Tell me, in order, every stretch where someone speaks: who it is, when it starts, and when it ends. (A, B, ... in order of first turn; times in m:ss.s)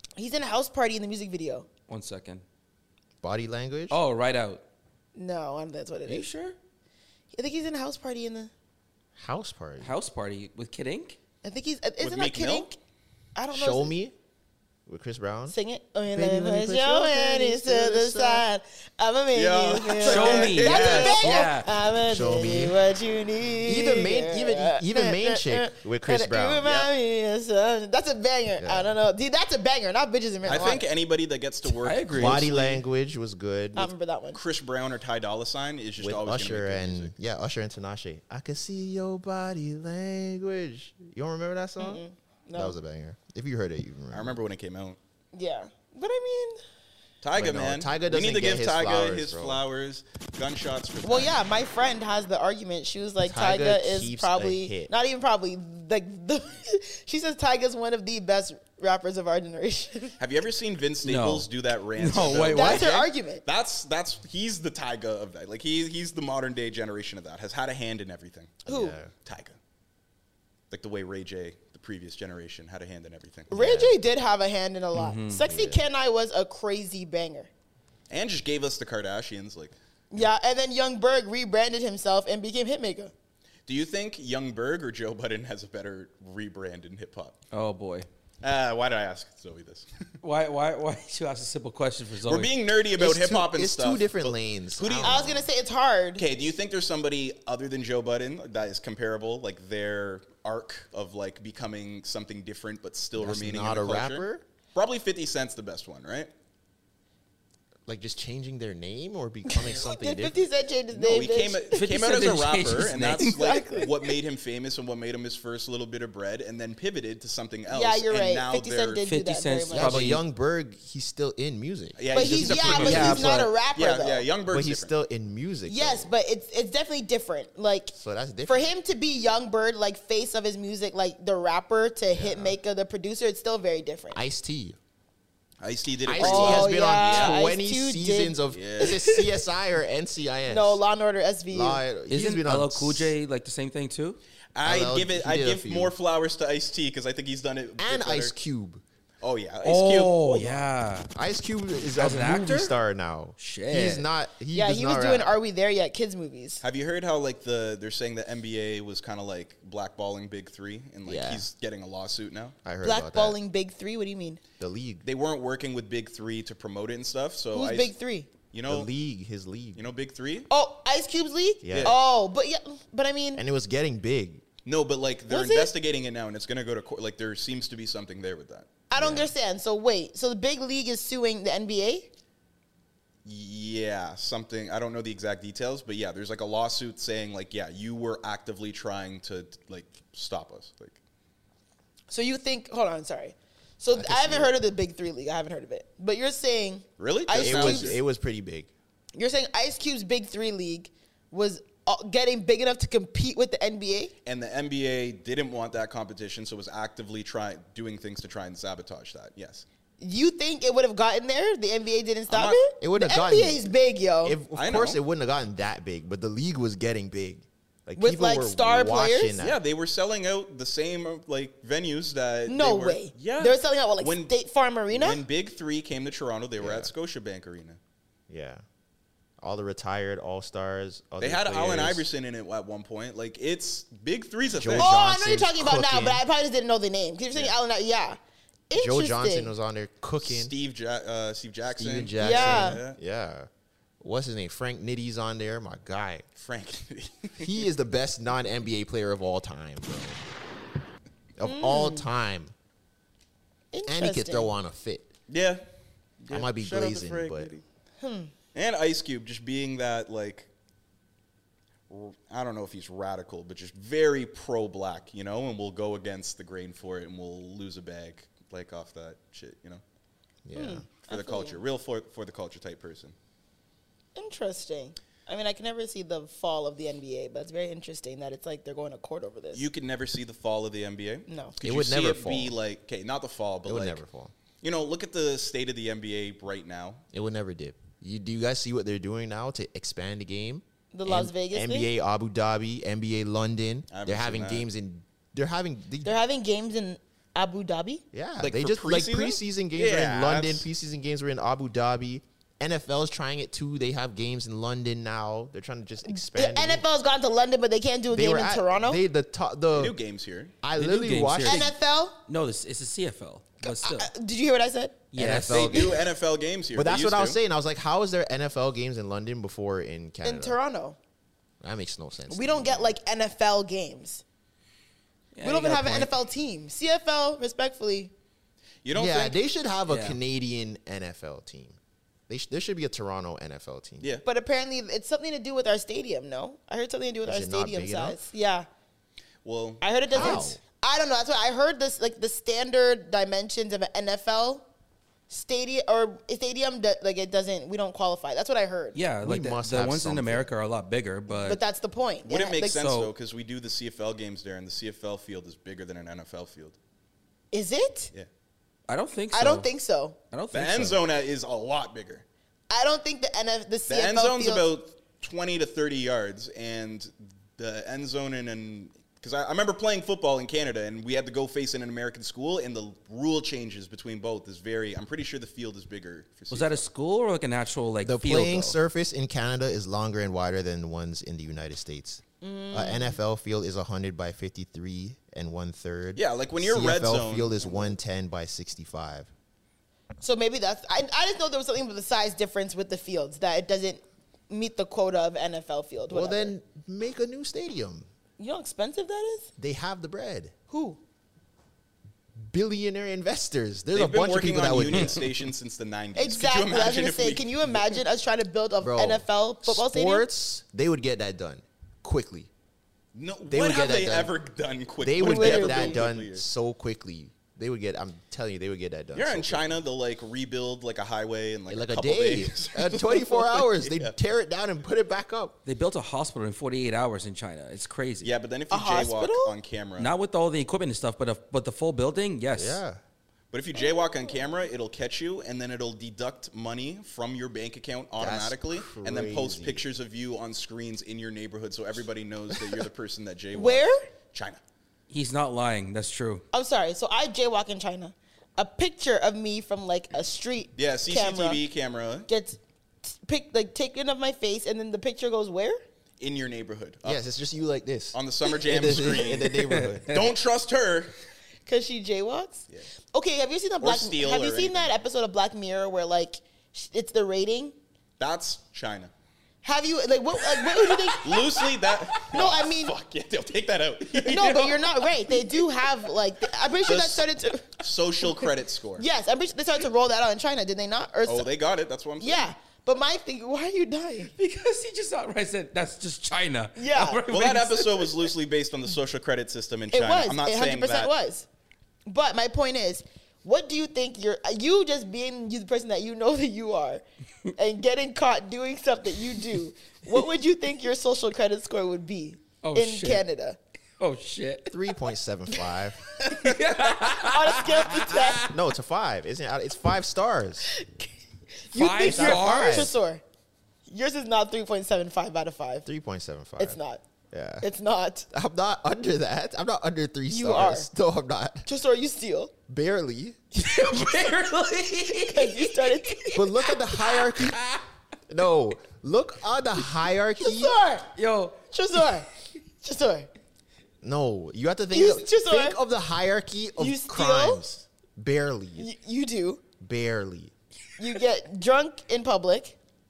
0:00.2-0:01.7 A
0:01.9-0:02.4 B
0:03.2-0:04.0 C
0:03.9-0:04.6 B
0:05.2-0:06.3 A
0:06.1-0:06.6 B
0:07.3-0:08.5 A
0:09.2-0:10.0 C
0:09.8-0:11.2 B
0:11.4-0:12.8 A
0:12.0-0:12.7 D
0:13.4-0:14.0 A
0:13.5-0:14.1 C
0:14.9-0:15.6 C
0:15.5-0:30.8 A
0:16.1-0:18.5 C
0:19.3-0:21.5 D
0:20.0-0:21.7 B
0:22.0-0:22.8 C
0:23.6-0:26.7 C
0:26.6-0:26.9 D
0:28.6-0:29.0 C
0:30.4-0:32.8 D
0:31.7-0:32.5 B
0:32.1-0:33.9 C
0:33.8-0:34.4 A
0:34.3-0:37.1 D
0:36.0-0:42.0 C
0:41.8-0:42.8 A
0:42.6-0:44.4 C
0:44.1-0:45.0 D
0:45.3-0:46.6 A
0:47.2-0:51.4 D
0:47.4-0:49.6 C
0:51.0-1:00.2 A
0:53.2-0:54.9 C
1:00.2-1:08.6 D
1:01.0-1:02.9 B
1:02.4-1:03.4 A
1:08.7-1:09.1 C
1:08.7-1:09.0 A
1:09.2-1:09.6 D
1:10.7-1:13.5 D
1:13.5-1:14.0 C
1:13.5-1:17.5 A
1:14.9-1:15.4 B
1:15.4-1:15.8 C
1:18.1-1:19.8 D
1:20.1-1:23.1 A
1:23.7-1:27.4 D
1:27.5-1:28.1 B
1:28.4-1:29.9 D
1:30.2-1:32.5 B
1:32.2-1:35.3 D
1:33.0-1:35.5 C
1:35.0-1:36.2 A
1:36.2-1:46.3 D
1:43.2-1:44.4 C
1:47.9-1:50.4 C
1:49.5-1:51.8 A
1:50.9-1:59.0 D
1:51.7-1:53.3 B
1:53.2-1:53.9 A
1:57.7-2:00.0 A
1:59.0-2:00.2 B
1:59.7-2:03.5 C
2:02.0-2:04.9 D
2:02.1-2:04.3 A
2:02.9-2:03.2 B
2:04.5-2:06.1 C
2:05.7-2:14.2 A
2:07.9-2:08.7 C
2:12.2-2:12.6 C
2:14.1-2:14.8 C
2:15.6-2:17.4 D
2:16.1-2:20.8 C
2:16.2-2:19.3 A
2:18.5-2:19.0 D
2:20.5-2:21.8 A
2:21.5-2:23.2 C
2:22.1-2:24.2 B
2:24.6-2:28.3 D
2:24.6-2:25.9 C
2:27.8-2:28.8 C
2:29.2-2:30.4 D
2:29.6-2:31.1 B
2:30.3-2:35.4 C
2:31.9-2:32.7 B
2:33.4-2:34.1 B
2:34.5-2:36.6 A
2:36.6-2:42.6 D
2:41.0-2:41.5 C
2:42.6-2:43.4 C
2:42.8-2:44.4 A
2:44.6-2:45.0 C
2:45.0-2:47.9 D
2:47.5-2:48.3 A
2:48.5-2:48.9 D
2:48.7-2:49.8 C
2:49.8-2:50.5 D
2:50.5-2:53.4 A
2:51.6-2:52.0 C
2:51.7-2:52.0 D
2:53.4-2:54.4 C
2:54.6-2:58.7 D
2:55.3-2:55.7 A
2:58.9-3:02.1 A
2:59.0-2:59.2 C
3:03.2-3:11.0 D
3:12.1-3:18.0 A
3:13.9-3:14.5 C
3:17.0-3:18.0 D
3:17.4-3:18.7 C
3:19.2-3:24.1 A
3:24.2-3:29.7 D
3:30.0-3:34.4 A
3:32.3-3:32.6 D
3:32.8-3:39.6 C
3:34.6-3:35.0 D
3:38.0-3:39.4 A
3:39.4-3:44.3 D
3:42.5-3:45.2 A
3:44.9-3:47.8 D
3:46.6-3:46.9 C
3:48.3-3:48.6 C
3:49.4-3:52.1 C
3:51.2-3:54.9 D
3:54.5-3:56.2 C
3:54.8-3:58.2 A
3:58.7-3:59.5 A
3:58.7-4:00.5 C
4:00.2-4:03.0 D
4:01.7-4:03.5 C
4:02.2-4:02.8 A
4:04.0-4:06.2 C
4:06.4-4:07.5 D
4:07.4-4:10.2 C
4:11.4-4:12.5 C
4:11.4-4:12.1 A
4:13.7-4:14.5 A
4:13.9-4:15.1 C
4:15.3-4:15.6 D
4:16.2-4:17.6 D
4:16.3-4:17.5 C
4:18.0-4:18.3 A
4:18.5-4:20.5 D
4:21.9-4:29.8 D
4:30.4-4:30.9 C
4:30.6-4:31.6 A
4:31.0-4:33.2 D
4:34.2-4:39.6 A
4:39.5-4:44.0 D
4:41.3-4:41.6 A
4:41.6-4:42.6 C
4:43.6-4:44.3 C
4:44.6-4:47.0 D
4:47.1-4:56.2 C
4:50.9-4:51.9 A
4:53.9-4:54.7 D
4:56.0-4:58.0 A
4:58.1-5:06.8 C
4:58.4-5:00.7 D
5:06.0-5:09.0 A
5:08.1-5:10.0 C
5:09.7-5:10.6 D
5:10.6-5:11.7 C
5:10.8-5:11.7 B
5:11.4-5:12.2 A
5:12.3-5:14.1 B
5:13.6-5:15.0 A
5:15.1-5:15.8 B
5:15.1-5:16.1 C
5:15.5-5:17.4 D
5:16.7-5:20.6 C
5:20.2-5:21.0 A
5:21.6-5:23.0 C
5:22.3-5:24.2 A
5:25.4-5:26.1 B
5:25.4-5:28.1 A
5:28.8-5:29.4 D
5:28.9-5:31.8 C
5:29.9-5:30.2 B
5:32.3-5:34.1 C
5:34.2-5:38.7 A
5:37.2-5:38.2 C
5:39.4-5:40.4 D
5:39.8-5:44.6 A
5:40.1-5:40.6 C
5:45.3-5:49.0 A
5:49.0-5:51.6 B
5:49.2-5:50.5 C
5:51.3-5:52.8 A
5:52.2-5:56.8 D
5:52.6-5:53.1 B
5:57.5-5:58.1 A
5:58.9-5:59.7 B
5:59.3-6:00.2 A
6:00.3-6:01.0 B
6:00.5-6:02.2 D
6:02.7-6:04.7 A
6:03.9-6:16.8 D
6:16.5-6:18.8 B
6:18.0-6:29.3 C
6:22.4-6:23.2 A
6:26.2-6:28.0 D
6:30.2-6:36.6 A
6:36.1-6:38.1 C
6:38.4-6:39.5 A
6:39.6-6:40.5 C
6:40.7-6:41.0 A
6:42.4-6:45.3 C
6:43.9-6:48.0 D
6:46.2-6:50.3 A
6:48.8-6:52.5 C
6:53.2-6:56.4 D
6:53.5-6:54.4 C
6:55.0-6:59.8 C
6:55.2-6:56.0 A
6:59.1-7:04.1 D
7:01.7-7:05.6 C
7:05.7-7:08.3 B
7:08.2-7:10.1 D
7:08.7-7:09.5 A
7:10.0-7:12.8 B
7:12.5-7:13.0 C
7:13.5-7:24.6 D
7:18.2-7:19.9 C
7:23.5-7:24.1 A
7:25.1-7:26.4 B
7:26.5-7:31.6 A
7:30.8-7:32.3 D
7:32.3-7:35.8 A
7:36.2-7:37.2 D
7:37.0-7:40.2 C
7:38.1-7:41.1 D
7:39.6-7:40.3 B
7:41.7-7:47.8 A
7:43.8-7:44.9 D
7:48.2-7:49.1 D
7:49.6-7:53.0 A
7:51.2-7:55.0 D
7:54.2-7:57.8 A
7:56.8-7:59.0 D
7:59.0-8:01.5 A
8:01.3-8:02.5 D
8:02.2-8:04.3 A
8:04.4-8:08.1 B
8:06.8-8:07.2 A
8:07.3-8:11.1 D
8:09.9-8:11.5 A
8:12.1-8:17.0 A
8:17.6-8:23.6 A
8:22.6-8:23.2 B
8:24.0-8:24.7 B
8:24.7-8:26.1 C
8:26.2-8:28.5 B
8:27.0-8:28.4 A
8:28.5-8:30.7 C
8:30.7-8:31.1 A
8:31.7-8:33.2 A
8:31.7-8:32.9 B
8:32.0-8:32.9 C
8:33.9-8:35.9 A
8:35.8-8:36.8 C
8:36.6-8:37.0 A
8:37.3-8:37.7 C
8:37.6-8:38.3 A
8:38.3-8:41.7 C
8:40.3-8:40.9 A
8:41.7-8:42.5 A
8:42.7-8:43.4 C
8:43.6-8:46.4 B
8:45.2-8:46.5 A
8:46.3-8:47.6 C
8:47.0-8:47.8 B
8:48.3-8:50.8 C
8:50.4-8:51.1 A
8:51.2-8:51.6 B
8:51.7-8:52.3 A
8:52.8-8:53.3 A
8:54.0-8:58.9 C
8:54.9-8:55.8 A
8:56.8-8:57.7 A
8:58.8-8:59.6 A
8:59.8-9:00.5 C
9:01.0-9:02.8 A